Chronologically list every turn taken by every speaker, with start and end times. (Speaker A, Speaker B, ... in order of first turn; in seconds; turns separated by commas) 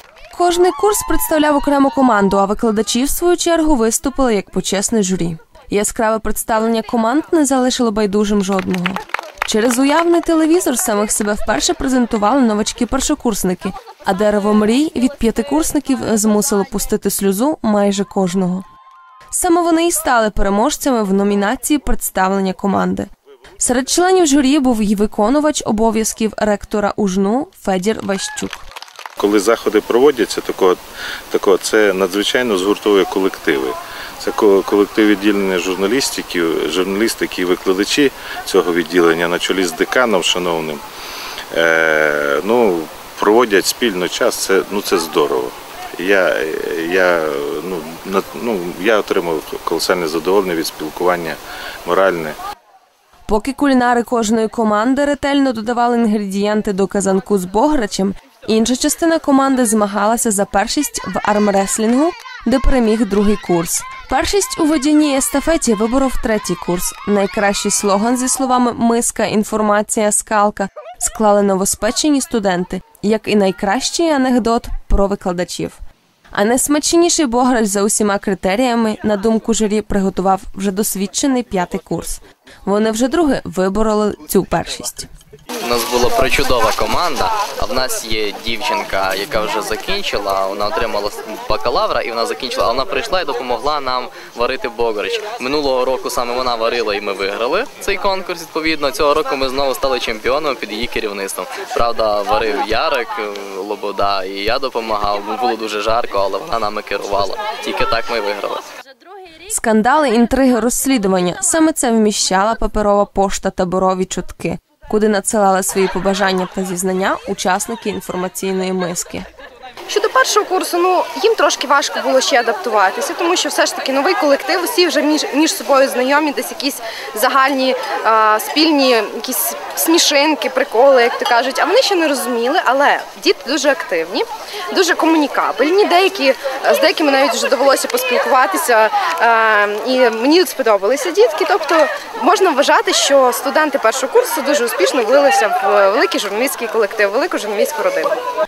Speaker A: 0.3-18.6, Speaker A: 19.3-28.6, Speaker B: 29.2-30.8, Speaker B: 31.3-40.8, Speaker B: 41.5-52.4, Speaker A: 53.3-75.8, Speaker A: 76.3-85.1, Speaker C: 85.6-108.6, Speaker A: 109.5-119.3, Speaker D: 119.9-148.2